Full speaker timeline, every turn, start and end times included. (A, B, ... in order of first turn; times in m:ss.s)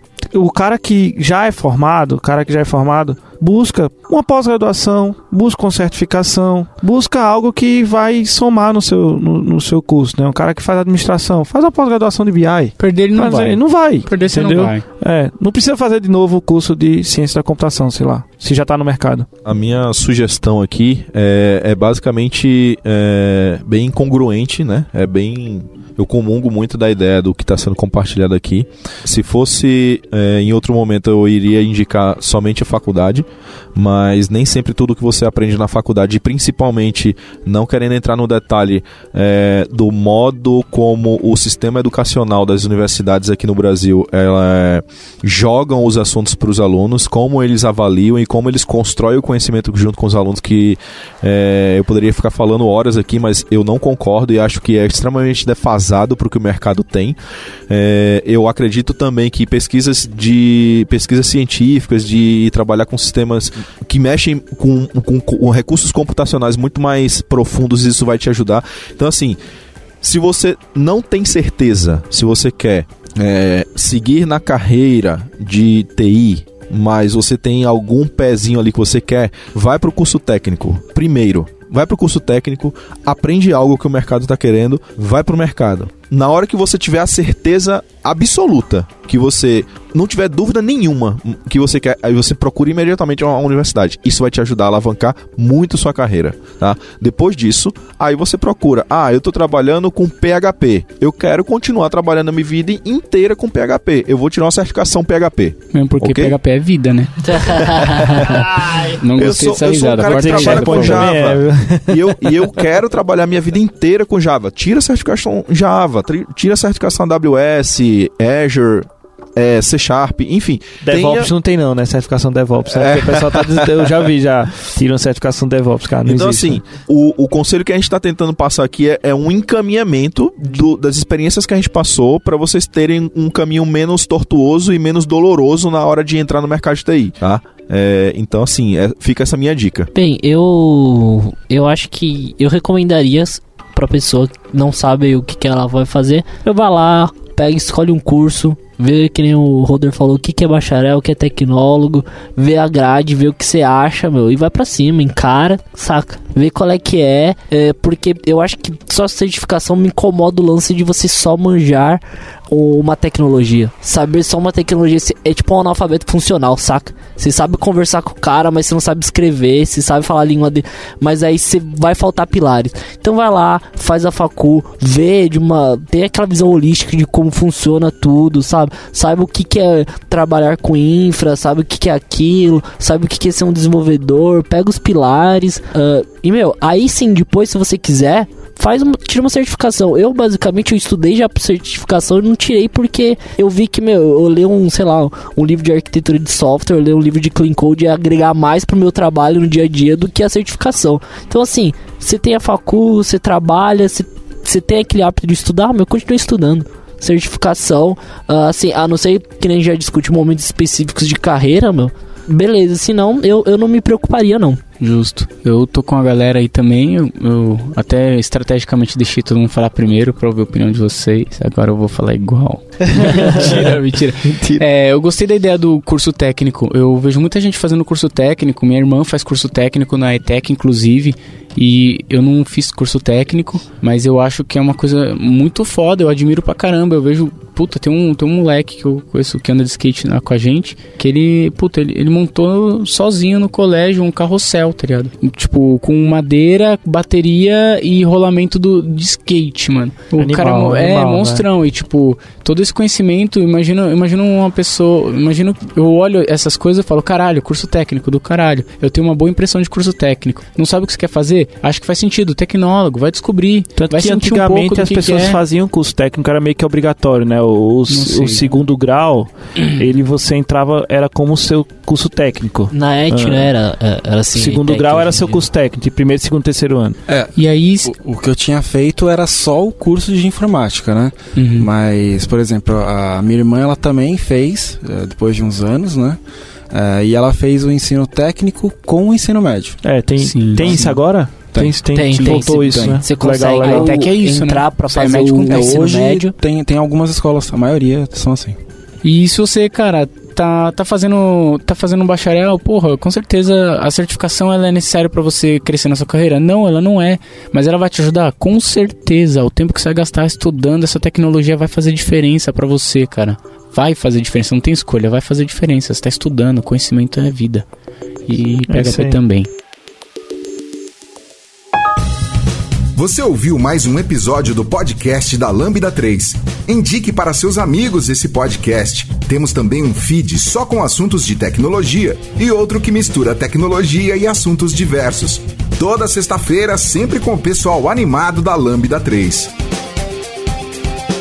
0:00.3-0:19.3 A
0:12.8-0:14.8 B
0:19.4-0:57.2 C
0:57.7-1:09.4 C
1:10.0-1:46.3 C
1:45.7-1:51.1 B
1:47.2-1:48.5 D
1:49.2-2:01.3 C
1:50.1-1:52.4 A
2:00.8-2:06.7 A
2:02.7-2:03.7 C
2:06.0-2:19.9 C
2:19.9-3:34.6 D
3:34.8-4:25.4 B
3:43.0-3:43.6 A
4:10.2-4:11.4 A
4:23.8-4:33.5 A
4:27.9-4:28.5 B
4:29.6-4:29.8 B
4:32.7-4:35.4 D
4:34.3-4:37.0 A
4:37.1-4:37.3 E
4:37.4-4:37.9 B
4:37.8-4:46.2 E
4:41.4-4:41.7 B
4:46.7-4:49.8 E
4:49.8-4:54.0 A
4:50.2-4:51.0 B
4:51.9-4:56.3 D
4:52.0-4:53.1 B
4:53.6-4:55.9 B
4:55.5-4:58.6 E
4:59.0-5:17.6 B
5:18.3-5:19.5 B
5:18.7-5:19.2 A
5:22.9-5:39.5 F